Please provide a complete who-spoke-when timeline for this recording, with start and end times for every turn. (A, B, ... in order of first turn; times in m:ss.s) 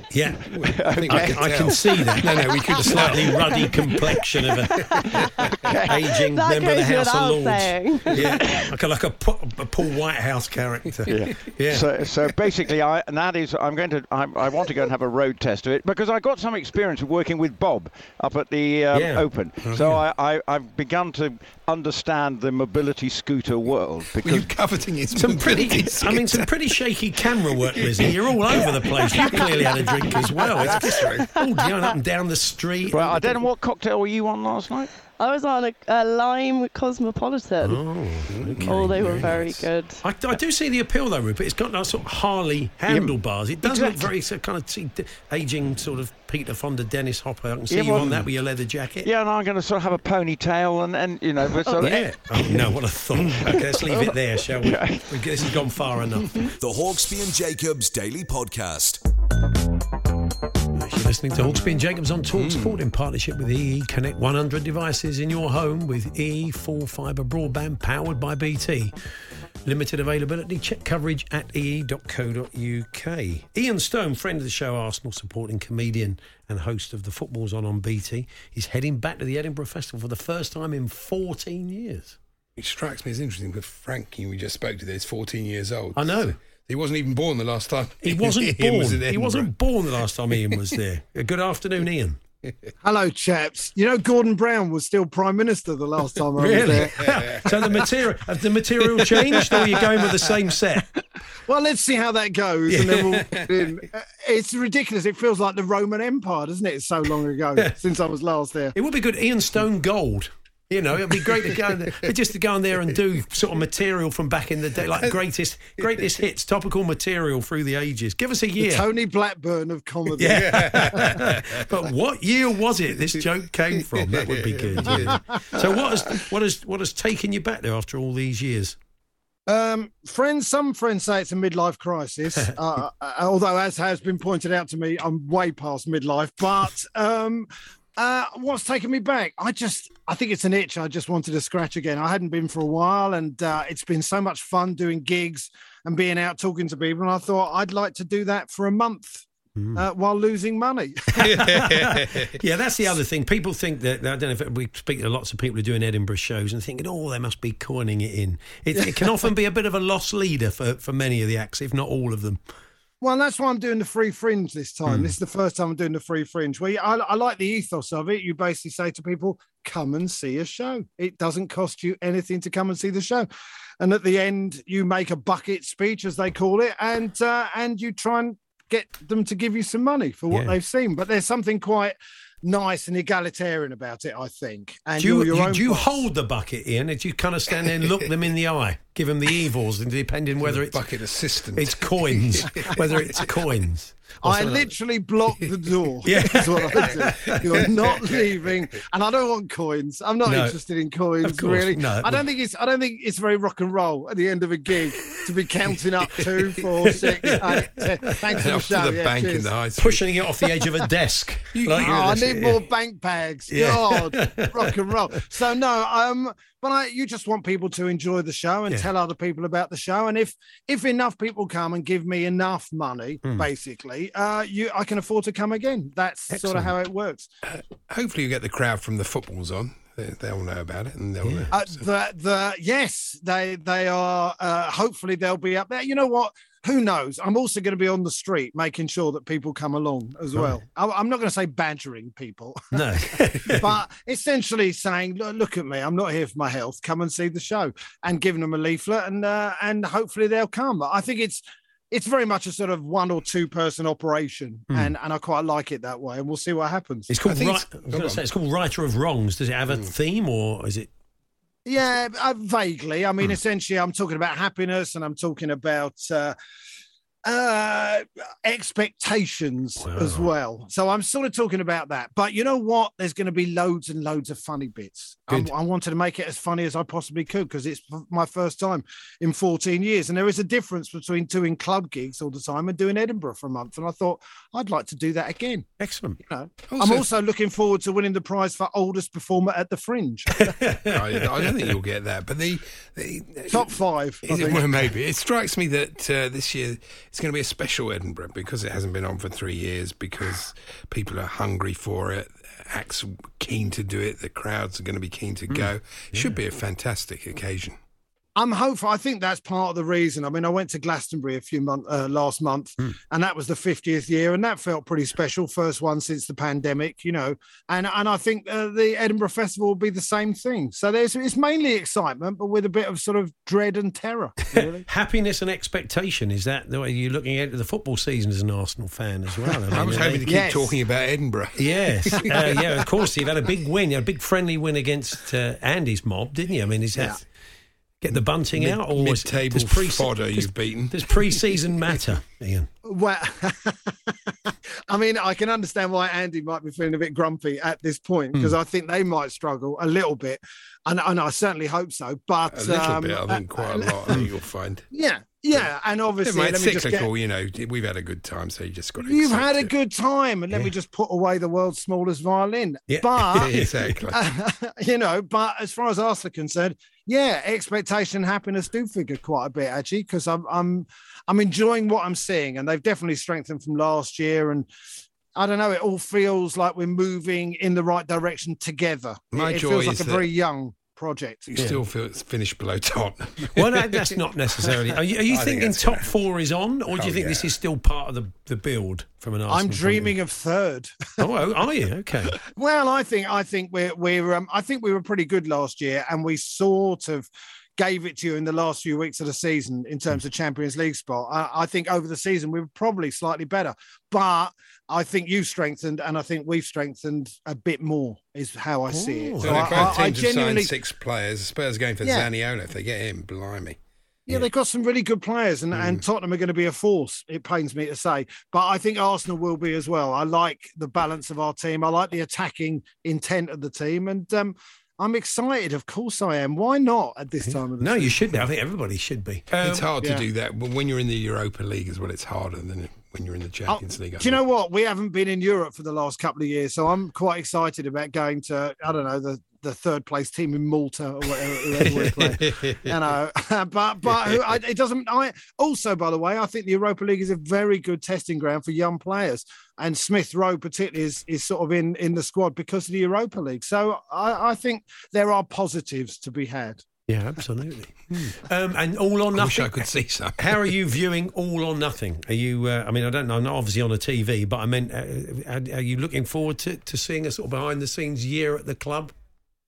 0:00.1-0:04.8 A
0:00.5-0:03.7 B
0:00.6-0:02.1 C
0:05.2-0:08.6 D
0:05.6-0:06.0 C
0:05.9-0:11.9 A
0:11.1-0:24.5 C
0:18.9-0:19.2 A
0:19.6-0:20.0 B
0:24.2-0:26.5 B
0:25.1-0:33.4 A
0:27.8-0:28.1 B
0:29.2-0:29.9 D
0:30.4-0:31.3 B
0:31.1-0:31.9 D
0:32.9-0:34.9 C
0:35.2-0:37.8 D
0:37.6-0:39.3 A
0:38.3-0:39.7 B
0:38.6-0:40.0 D
0:40.0-0:49.1 A
0:42.9-0:44.1 C
0:47.7-0:48.3 C
0:49.0-0:52.1 C
0:51.6-0:52.0 D
0:51.8-0:56.3 A
0:53.1-0:53.5 B
0:53.7-0:54.1 D
0:54.6-0:55.0 C
0:56.6-0:59.0 E
1:00.7-1:08.9 A
1:02.3-1:02.8 B
1:09.6-1:22.2 A
1:22.6-1:29.5 B
1:25.9-1:26.4 A
1:28.0-1:32.2 A
1:32.4-1:32.7 B
1:32.8-1:37.1 F
1:36.4-1:40.9 A
1:36.6-1:37.5 B
1:41.5-1:48.8 F
1:42.7-1:43.0 A
1:48.7-1:58.8 A
1:55.8-1:56.1 B
1:58.6-2:01.2 F
2:00.2-2:08.8 A
2:00.2-2:01.5 B
2:03.7-2:05.6 B
2:09.5-2:31.4 F
2:29.6-2:29.8 A
2:31.2-2:42.4 A
2:31.2-2:32.4 B
2:43.0-2:53.3 F
2:53.8-3:06.0 F
3:05.0-3:10.8 A
3:10.4-3:13.3 B
3:11.5-3:14.7 A
3:14.2-3:29.5 F
3:16.0-3:17.6 A
3:17.2-3:18.2 B
3:20.2-3:20.6 A
3:21.2-3:22.2 A
3:26.8-3:27.9 A
3:28.3-3:30.0 B
3:29.8-3:32.6 A
3:31.5-3:32.3 B
3:31.7-3:47.3 F
3:33.5-3:34.7 A
3:46.3-3:46.7 A
3:47.4-3:51.8 B
3:51.2-3:51.5 A
3:51.5-4:02.6 F
4:02.7-4:03.7 A
4:03.4-4:17.1 F
4:17.1-4:20.9 A
4:17.2-4:18.2 B
4:21.6-4:26.3 F
4:27.2-4:45.7 F
4:29.8-4:30.3 A
4:45.8-4:46.2 A
4:46.3-4:50.5 F
4:46.7-4:47.1 B
4:50.4-4:51.7 A
4:50.9-5:07.8 B
4:53.5-4:54.7 F
5:05.5-5:06.4 A
5:08.4-5:24.8 F
5:24.6-5:30.3 A
5:29.7-5:32.6 B
5:30.2-5:30.8 F
5:31.6-5:37.2 A
5:38.0-5:42.7 A
5:38.5-5:41.2 B
5:42.8-5:54.2 F
5:52.5-5:54.8 B
5:54.9-5:57.1 F
5:56.2-5:59.7 B
5:59.0-6:14.7 F
6:02.9-6:04.0 A
6:03.3-6:04.2 B
6:15.3-6:21.7 F
6:19.3-6:20.3 B
6:21.5-6:26.1 B
6:21.6-6:21.8 A
6:23.5-6:30.1 A
6:26.9-6:27.5 B
6:29.5-6:31.2 F
6:31.2-6:32.4 A
6:32.5-6:50.7 F
6:48.9-6:50.0 A
6:49.4-6:53.8 B
6:52.0-6:52.3 F
6:54.3-7:08.3 F
6:55.7-6:56.0 B
7:07.4-7:09.9 A
7:09.6-7:14.4 B
7:13.7-7:36.8 F
7:21.9-7:23.0 B
7:24.1-7:24.5 B
7:37.1-7:39.8 A
7:39.3-7:40.7 B
7:40.4-7:49.1 A